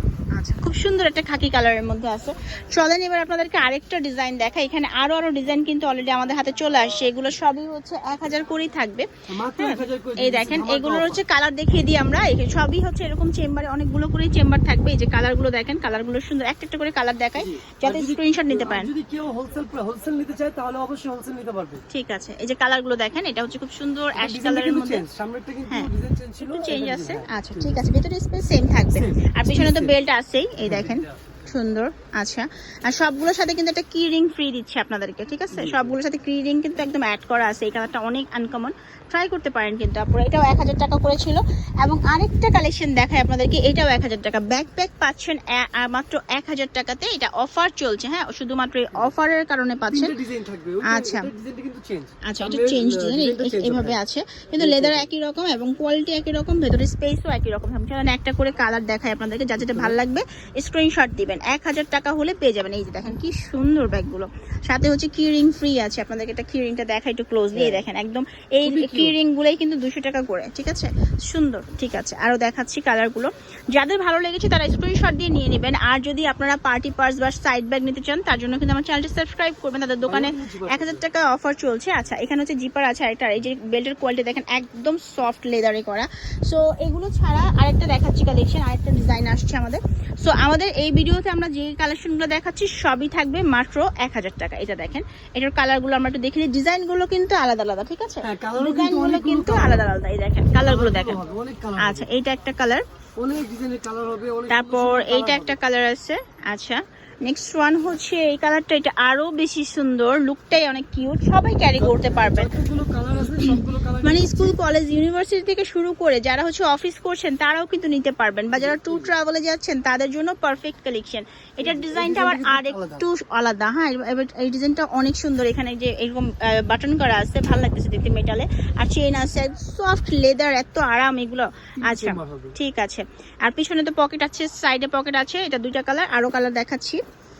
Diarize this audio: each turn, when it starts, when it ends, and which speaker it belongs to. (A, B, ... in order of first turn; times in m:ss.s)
0:00.4-0:18.9 A
0:09.3-0:11.2 B
0:17.4-0:21.8 B
0:21.9-0:25.0 A
0:24.2-0:27.9 B
0:26.4-0:50.1 A
0:29.0-0:30.0 B
0:30.6-0:31.2 B
0:35.5-0:36.0 B
0:49.9-0:54.0 B
0:50.8-0:51.3 A
0:52.3-1:41.2 A
0:54.6-0:55.1 B
0:59.6-1:00.0 B
1:07.5-1:07.8 B
1:08.6-1:09.2 B
1:20.0-1:21.0 B
1:38.2-1:39.9 B
1:40.6-1:42.1 B
1:41.8-1:42.8 A
1:43.2-1:45.6 B
1:44.5-1:52.5 A
1:51.8-1:54.6 B
1:53.3-2:17.0 A
1:58.5-1:59.1 B
2:01.6-2:03.0 B
2:11.8-2:12.6 B